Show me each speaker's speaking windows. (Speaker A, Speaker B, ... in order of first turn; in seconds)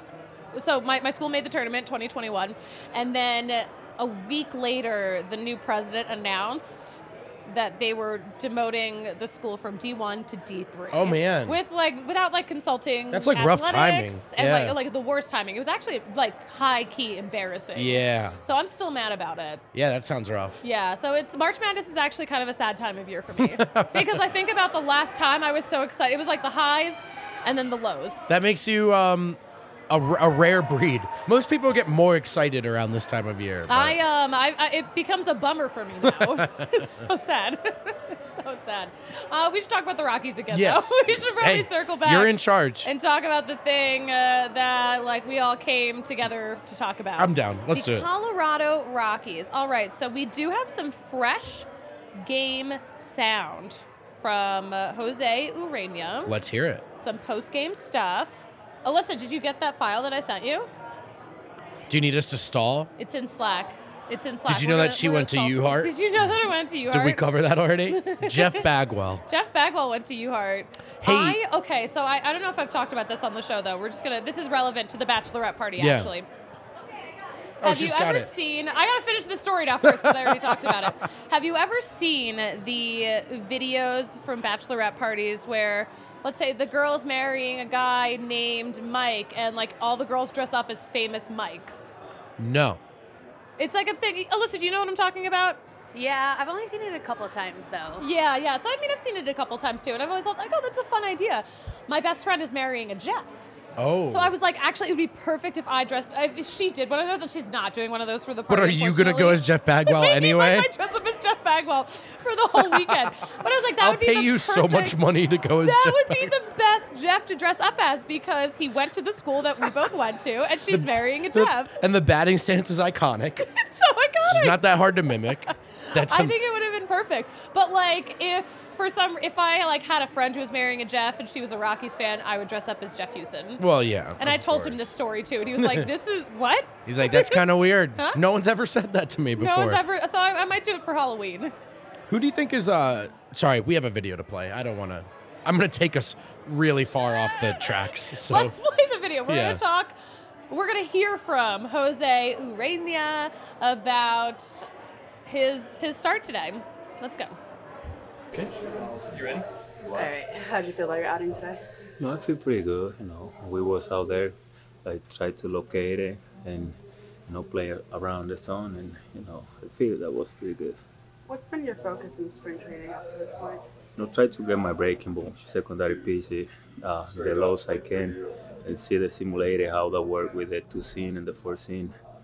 Speaker A: 0.5-19.6, 20.6-28.3, 33.7-56.3, 57.0-60.7, 63.0-67.3, 67.8-68.7, 69.3-76.3, 77.6-91.9, 93.6-95.6, 98.0-103.4, 104.0-115.1, 115.6-121.7, 123.4-133.6, 134.2-138.2, 139.3-141.5, 147.2-149.9, 150.5-154.7, 155.2-157.4
Speaker B: 10.9-11.6, 13.1-14.8, 17.7-18.4, 19.7-20.6, 23.4-24.3, 28.3-34.0, 36.0-37.0, 40.5-42.9, 47.2-48.1, 56.2-56.8, 61.9-62.9, 64.5-66.3, 66.9-69.2, 71.0-71.4, 75.8-76.1, 77.6-78.3, 79.8-80.9, 92.4-92.8, 103.8-104.3, 108.5-110.7, 112.5-113.2, 113.8-116.3, 120.7-123.5, 124.2-126.3, 133.6-134.9, 135.5-135.9, 136.8-139.8, 142.1-148.5, 149.3-149.6
Speaker C: 95.9-98.0
Speaker D: 159.9-161.6, 171.3-173.6
Speaker E: 162.0-170.8, 173.9-181.9